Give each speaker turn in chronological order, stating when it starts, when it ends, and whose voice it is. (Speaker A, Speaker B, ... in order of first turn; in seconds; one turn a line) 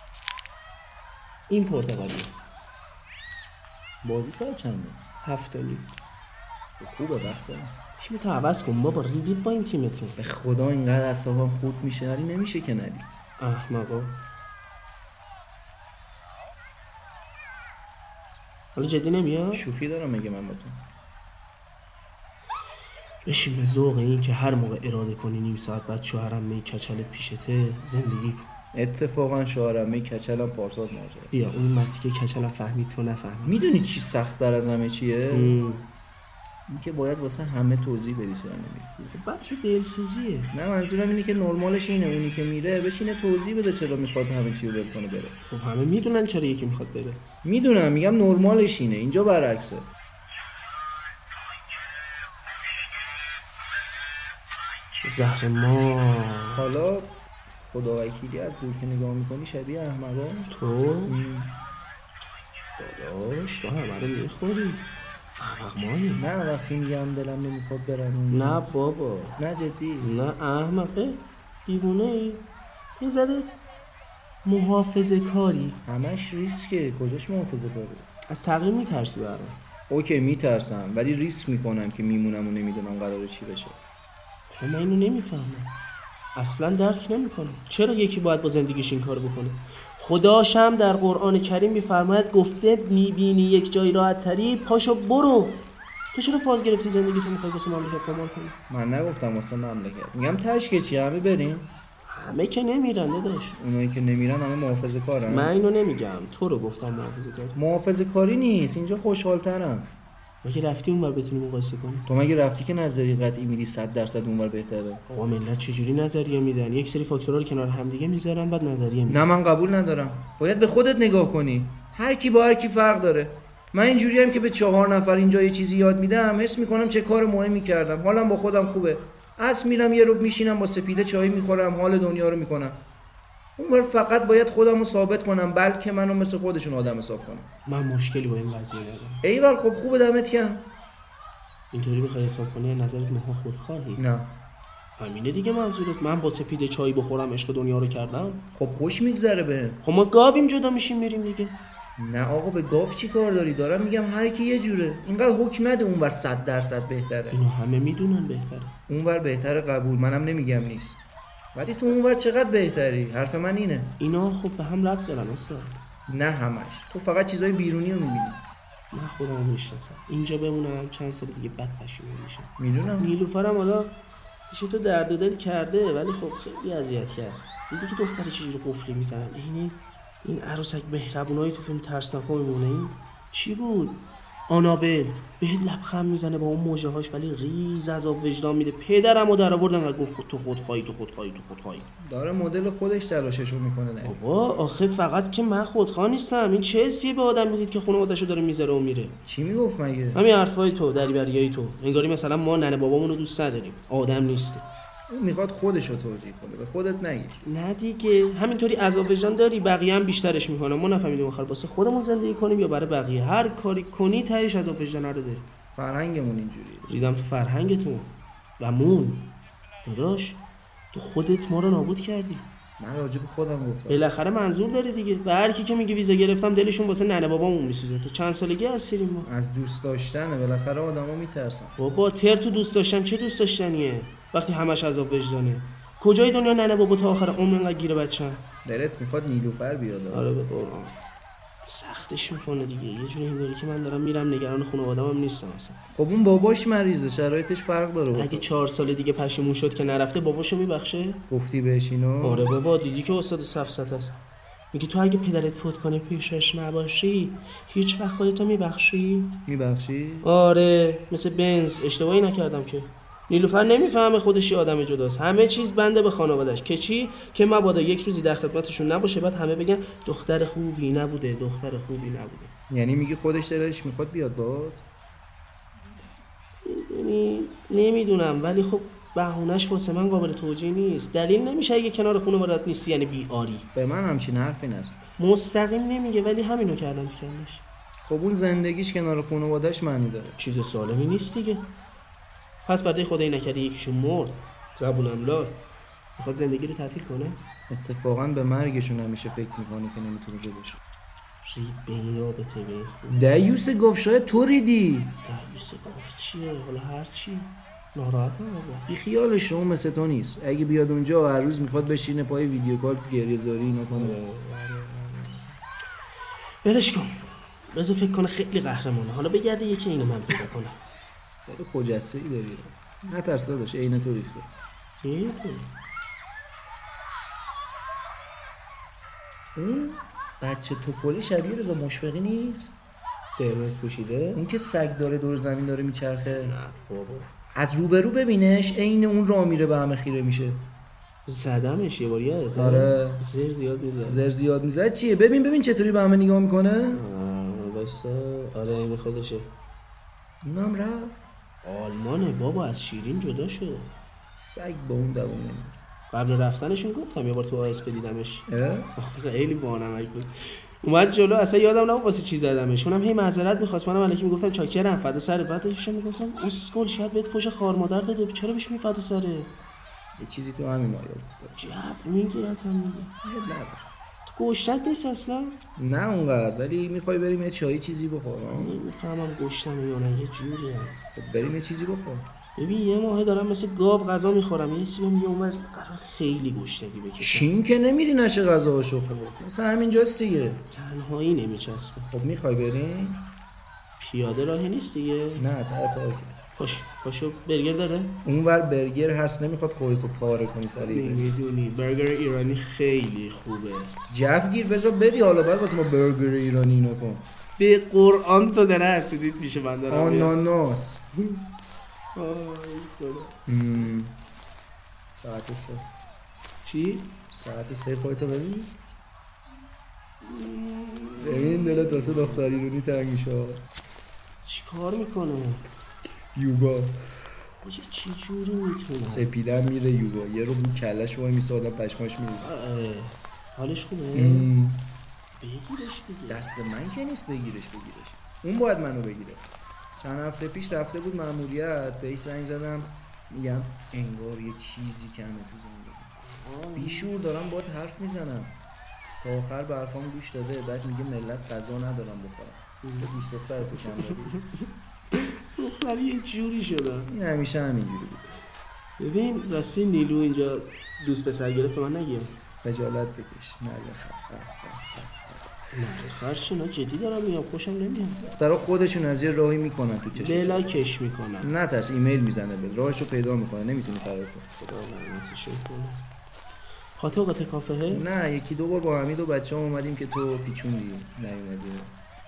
Speaker A: 1.5-2.3
Speaker B: 4.0-5.0
Speaker A: 5.2-5.9
Speaker B: 6.8-7.8
Speaker A: 8.0-10.2
Speaker B: 10.2-13.1
Speaker A: 13.4-14.2
Speaker A: 18.8-19.7
Speaker B: 19.5-20.8
Speaker A: 23.2-28.5
Speaker B: 28.7-31.3
Speaker A: 31.3-33.6
Speaker B: 33.5-35.6
Speaker A: 35.3-35.9
Speaker B: 36.7-39.0
Speaker A: 39.0-40.5
Speaker B: 40.5-45.4
Speaker A: 45.5-47.2
Speaker B: 47.4-49.9
Speaker A: 55.0-56.6
Speaker B: 56.5-60.5
Speaker A: 60.5-61.2
Speaker B: 61.1-61.6
Speaker A: 62.8-66.2
Speaker B: 66.2-68.6
Speaker A: 68.3-69.4
Speaker B: 69.4-70.1
Speaker A: 70.0-72.5
Speaker A: 73.0-73.5
Speaker A: 74.4-75.8
Speaker B: 75.8-78.1
Speaker A: 78.3-79.6
Speaker B: 79.9-83.8
Speaker A: 84.5-85.8
Speaker A: 86.4-98.6
Speaker B: 98.7-101.7
Speaker A: 102.1-103.6
Speaker B: 103.5-105.5
Speaker A: 105.3-107.6
Speaker B: 107.5-109.9
Speaker A: 110.4-112.1
Speaker B: 112.1-115.0
Speaker A: 115.1-119.2
Speaker B: 119.1-132.8
Speaker B: 133.6-137.5
Speaker A: 137.7-139.2
Speaker B: 139.2-140.7
Speaker A: 141.7-144.0
Speaker B: 144.0-144.4
Speaker A: 145.0-148.5
Speaker B: 148.6-149.8
Speaker A: 149.8-151.6
Speaker B: 152.0-157.4
Speaker A: 157.3-158.8
Speaker B: 158.9-161.0
Speaker B: 161.5-164.0
Speaker A: 164.0-165.8
Speaker B: 166.1-168.4
Speaker A: 168.9-174.0
Speaker B: 172.6-173.2
Speaker A: 174.5-191.9
Speaker B: 192.0-194.2
Speaker A: 194.0-199.2
Speaker B: 199.2-200.2
Speaker A: 200.1-204.7
Speaker B: 205.1-207.4
Speaker A: 207.4-215.5
Speaker B: 215.7-216.9
Speaker A: 216.9-222.5
Speaker B: 222.8-224.1
Speaker A: 223.9-229.3
Speaker B: 229.2-231.8
Speaker A: 231.8-238.4
Speaker B: 238.7-240.3
Speaker A: 240.1-241.0
Speaker A: 241.7-245.8
Speaker B: 245.9-248.5
Speaker A: 248.2-251.2
Speaker B: 251.3-252.5
Speaker A: 252.2-254.2
Speaker A: 254.7-259.4
Speaker B: 259.5-260.3
Speaker A: 260.2-272.5
Speaker B: 272.7-274.9
Speaker A: 276.6-283.7
Speaker B: 283.7-285.0
Speaker A: 285.2-287.6
Speaker B: 288.0-290.4
Speaker A: 290.4-291.7
Speaker A: 292.7-295.6
Speaker A: 296.2-297.4
Speaker B: 297.7-300.8
Speaker A: 301.4-303.3
Speaker B: 303.1-305.2
Speaker A: 305.2-308.9
Speaker B: 308.9-314.2
Speaker A: 313.9-315.6
Speaker A: 316.6-320.8
Speaker B: 321.5-324.5
Speaker A: 325.0-325.7
Speaker B: 329.6-332.8
Speaker A: 333.4-334.4
Speaker B: 334.3-336.6
Speaker A: 336.3-337.3
Speaker B: 337.5-340.7
Speaker A: 341.3-344.2
Speaker B: 342.6-343.2
Speaker B: 344.1-347.0
Speaker A: 346.9-349.5
Speaker B: 350.4-351.3
Speaker A: 351.6-353.9
Speaker B: 354.4-355.8
Speaker A: 356.1-369.5
Speaker B: 358.5-358.9
Speaker B: 370.2-371.7
Speaker A: 371.6-373.1
Speaker B: 373.2-373.9
Speaker A: 374.2-375.6
Speaker B: 375.8-378.8
Speaker A: 378.5-381.0
Speaker B: 381.1-382.3
Speaker A: 382.6-387.5
Speaker B: 387.2-390.7
Speaker A: 390.7-392.1
Speaker B: 392.1-393.3
Speaker A: 394.0-395.4
Speaker B: 395.4-396.4
Speaker A: 396.6-398.2
Speaker B: 398.2-401.4
Speaker A: 400.8-403.9
Speaker B: 404.1-407.3
Speaker A: 407.6-410.3
Speaker B: 409.9-411.1
Speaker A: 412.1-413.4
Speaker B: 413.5-414.2
Speaker B: 415.1-415.9
Speaker A: 416.6-417.1
Speaker B: 417.3-418.8
Speaker A: 420.2-422.5
Speaker B: 421.2-423.7
Speaker A: 424.4-425.7
Speaker B: 426.3-427.0
Speaker A: 427.6-429.3
Speaker B: 429.0-432.5
Speaker A: 432.4-434.5
Speaker B: 434.1-434.9
Speaker A: 435.4-436.5
Speaker B: 436.3-446.2
Speaker A: 446.2-447.1
Speaker B: 446.8-448.6
Speaker B: 449.2-454.4
Speaker A: 452.8-453.1
Speaker A: 453.8-457.1
Speaker B: 457.1-458.3
Speaker A: 459.0-462.4
Speaker B: 462.6-465.5
Speaker A: 465.7-468.2
Speaker B: 468.2-470.8
Speaker A: 470.1-471.5
Speaker B: 471.4-474.5
Speaker A: 474.6-476.0
Speaker A: 477.0-478.1
Speaker B: 477.9-481.9